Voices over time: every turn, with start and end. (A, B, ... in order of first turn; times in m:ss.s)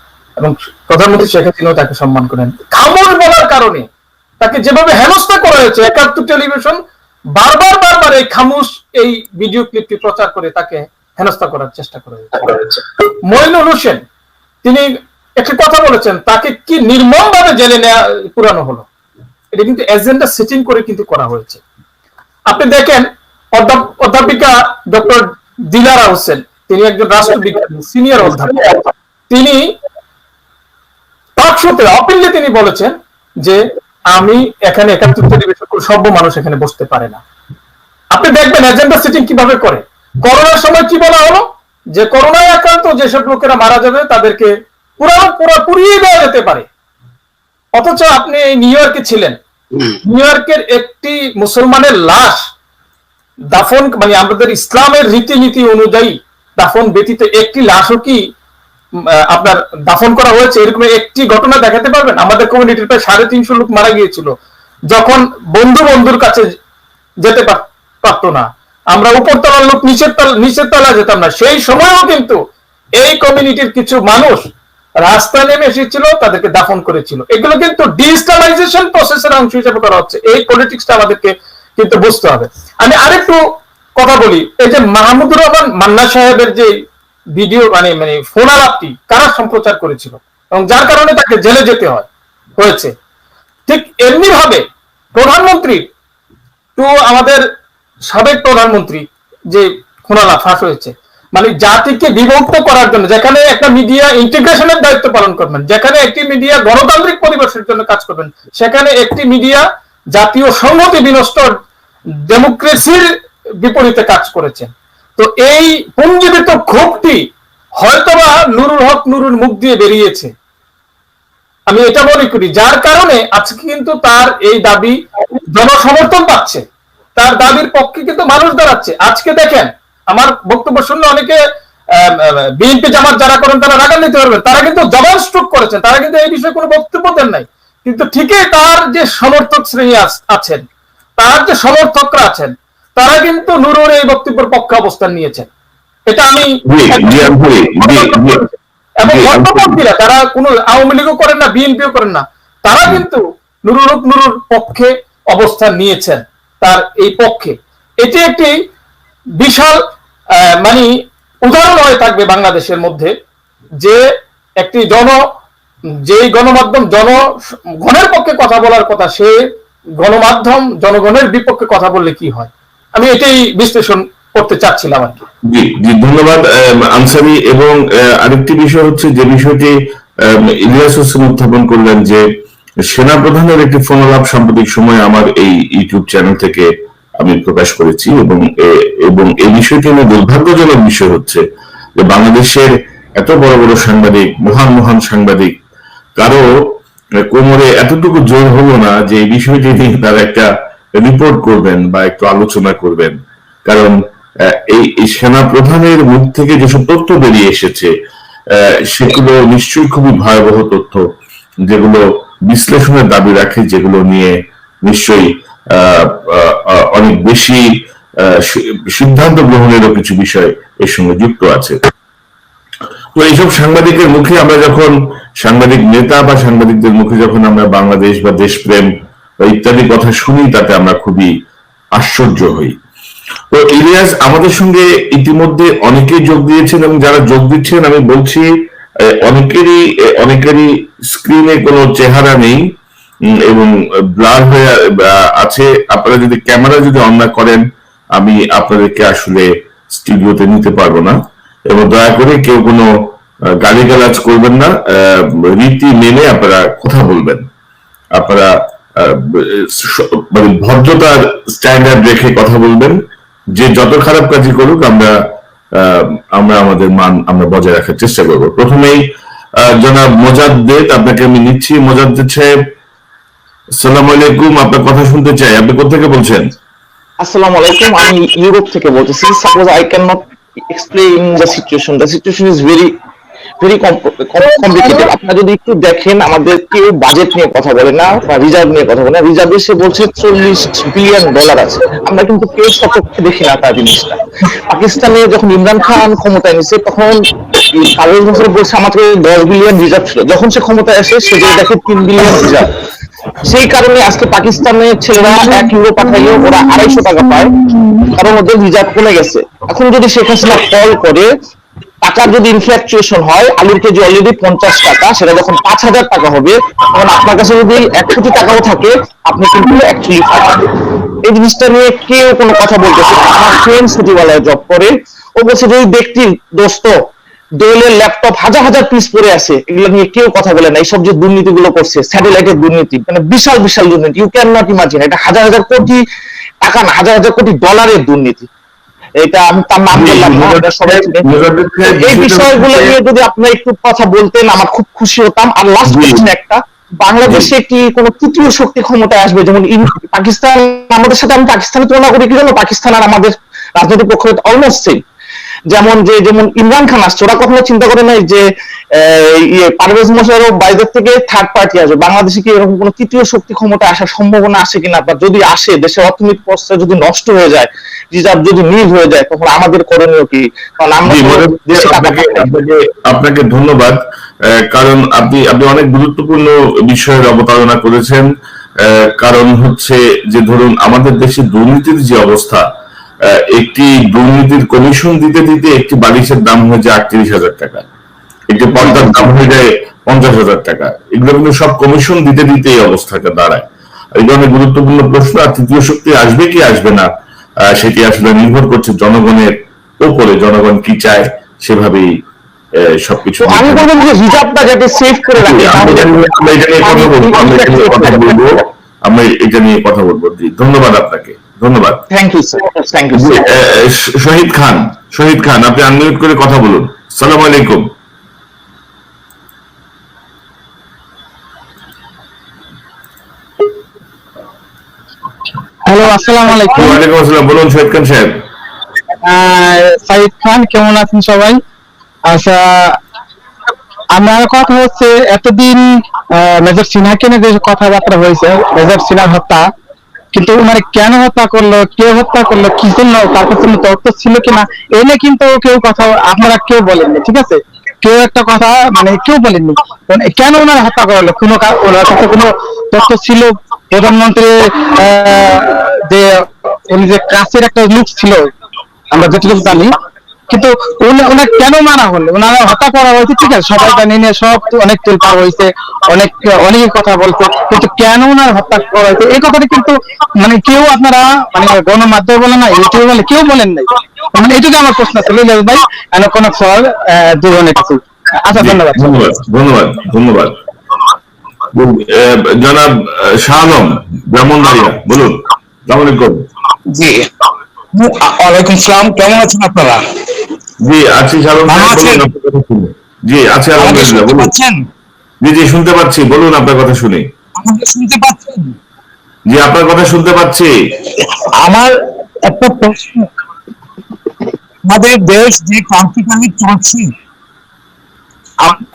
0:00.4-0:03.9 A
0:04.4-0:06.8 A
0:07.3-0:12.5 A
0:13.2-0:14.0 A
0:15.4-0:18.9 A
0:19.5-0:21.6 A
0:22.5-0:29.6 A
0:31.4-0:33.6 A
0:34.1-0:37.2 A
0:38.1-0:46.7 A
0:47.7-0:49.4 A
0:50.0-0:52.4 A
0:53.5-0:58.2 A
0:59.3-1:04.3 A
1:04.9-1:06.4 A
1:07.2-1:12.4 A
1:13.0-1:14.4 A
1:15.0-1:23.4 A
1:24.0-1:26.7 A
1:27.3-1:32.1 A
1:32.6-1:32.9 A
1:33.7-1:34.6 A
1:35.1-1:35.8 A
1:36.8-1:37.4 A
1:38.1-1:51.5 A
1:52.3-1:53.1 A
1:53.6-1:57.2 A
1:57.8-2:00.3 A
2:01.7-2:05.0 A
2:05.5-2:06.6 A
2:07.2-2:11.4 A
2:12.0-2:20.6 A
2:21.2-2:25.5 A
2:26.1-2:28.5 A
2:26.7-2:28.4 B
2:29.0-2:38.5 A
2:29.0-2:29.8 B
2:39.4-2:39.8 A
2:40.6-2:40.9 A
2:41.4-2:43.1 A
2:44.6-2:45.2 A
2:46.1-2:47.2 A
2:47.8-2:49.3 A
2:50.0-2:55.2 A
2:55.5-2:59.7 B
3:00.3-3:02.2 B
3:02.9-3:06.7 B
3:07.2-3:11.4 B
3:12.0-3:15.5 B
3:16.2-3:16.5 B
3:17.3-3:20.5 B
3:21.0-3:23.9 B
3:24.5-3:27.9 B
3:28.6-3:31.0 B
3:31.7-3:37.6 B
3:38.2-3:41.8 B
3:43.2-3:48.8 B
3:49.4-3:51.3 B
3:52.0-3:52.7 B
3:53.5-3:58.5 B
3:59.2-4:02.6 B
4:03.5-4:07.6 B
4:08.2-4:11.2 B
4:11.7-4:12.8 B
4:13.6-4:17.4 B
4:18.2-4:22.9 B
4:23.5-4:25.1 B
4:25.8-4:29.0 B
4:29.6-4:32.5 B
4:33.8-4:36.4 B
4:37.2-4:42.9 C
4:43.6-4:54.2 C
4:54.7-4:57.2 C
4:57.7-5:02.7 C
5:03.4-5:07.5 C
5:08.1-5:11.3 C
5:12.0-5:20.6 C
5:21.2-5:26.9 C
5:27.6-5:36.0 C
5:36.6-5:38.5 C
5:39.2-5:55.0 C
5:39.9-5:42.9 B
5:45.9-5:46.2 B
5:47.2-5:47.5 B
5:55.7-5:58.4 C
5:58.9-6:12.5 C
6:11.1-6:14.0 B
6:14.7-6:18.2 B
6:18.8-6:22.6 B
6:23.5-6:27.8 B
6:28.5-6:33.6 B
6:34.2-6:37.1 B
6:37.7-6:42.1 B
6:42.9-6:43.9 B
6:43.4-6:48.6 C
6:45.4-6:52.0 B
6:52.1-6:53.5 C
6:53.1-6:57.8 B
7:05.8-7:07.0 D
7:06.7-7:08.3 B
7:09.2-7:11.6 D
7:12.3-7:13.0 D
7:14.1-7:19.7 D
7:20.3-7:38.5 D
7:39.1-7:40.0 D
7:40.5-7:59.2 D
7:58.6-8:00.5 B
8:01.7-8:05.3 B
8:05.9-8:06.4 B
8:06.9-8:07.2 E
8:07.9-8:10.0 E
8:10.8-8:14.5 B
8:11.7-8:12.2 E
8:13.8-8:14.8 E
8:15.4-8:17.2 B
8:17.6-8:18.7 E
8:19.5-8:20.7 B
8:22.5-8:23.2 E
8:24.8-8:27.1 E